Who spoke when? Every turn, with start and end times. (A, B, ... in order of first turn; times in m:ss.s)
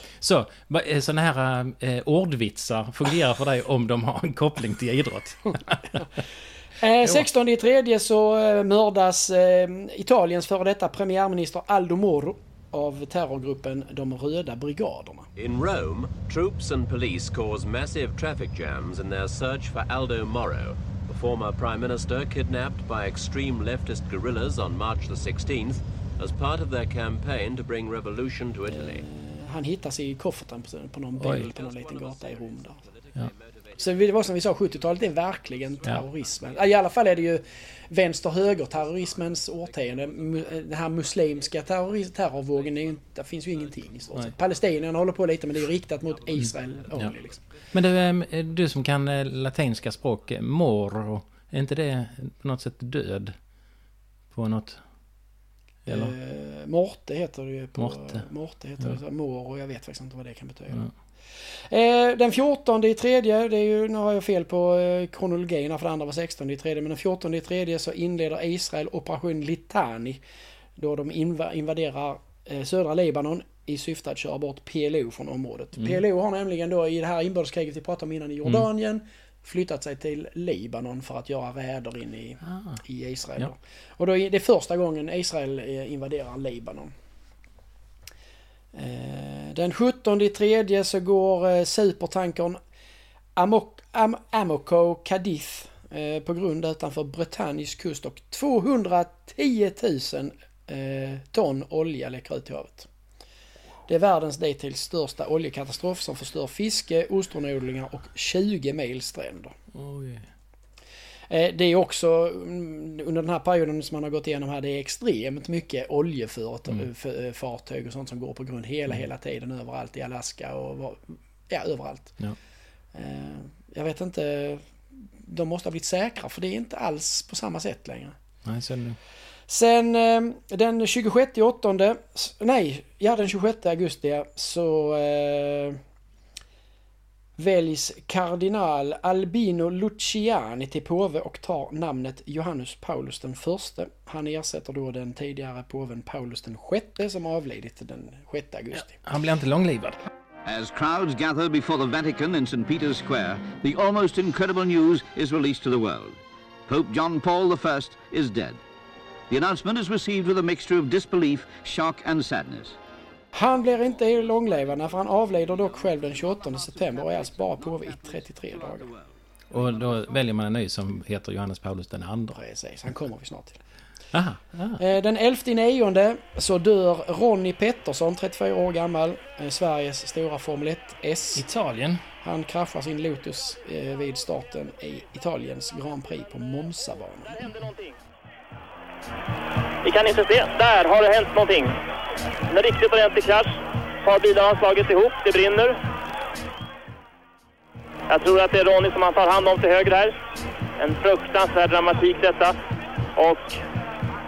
0:00.2-0:06.0 A
0:06.8-0:15.3 B
0:15.4-0:29.0 C
0:28.7-0:32.8 B
0:31.2-0:31.5 A
0:31.4-0:37.4 C
0:33.8-0:47.4 B
0:38.3-0:41.8 C
0:42.4-0:45.0 C
0:45.5-0:48.9 C
0:46.4-0:47.1 A
0:47.7-0:53.4 A
0:49.8-0:50.4 C
0:54.3-0:54.8 A
0:55.8-0:56.1 A
0:55.8-1:00.9 B
0:57.8-0:58.2 A
1:01.7-1:10.2 B
1:10.8-1:26.9 B
1:22.4-1:22.8 A
1:28.7-1:32.6 B
1:33.4-1:42.9 B
1:43.9-1:49.5 B
1:49.7-1:50.3 A
1:51.3-2:02.2 B
2:02.9-2:08.2 B
2:08.4-2:09.0 A
2:09.5-2:15.8 B
2:17.4-2:29.0 B
2:28.7-2:30.0 A
2:30.4-2:38.6 D
2:39.3-2:42.8 D
2:43.3-2:48.9 B
2:48.8-2:49.1 C
2:49.5-2:52.4 A
2:52.3-2:53.6 B
2:54.1-2:54.8 A
2:54.8-3:01.4 B
3:01.4-3:02.0 A
3:02.2-3:07.5 B
3:07.3-3:08.0 E
3:09.8-3:11.7 E
3:12.5-3:13.5 E
3:14.0-3:15.8 E
3:18.1-3:20.1 E
3:20.8-3:22.6 E
3:23.2-3:23.6 E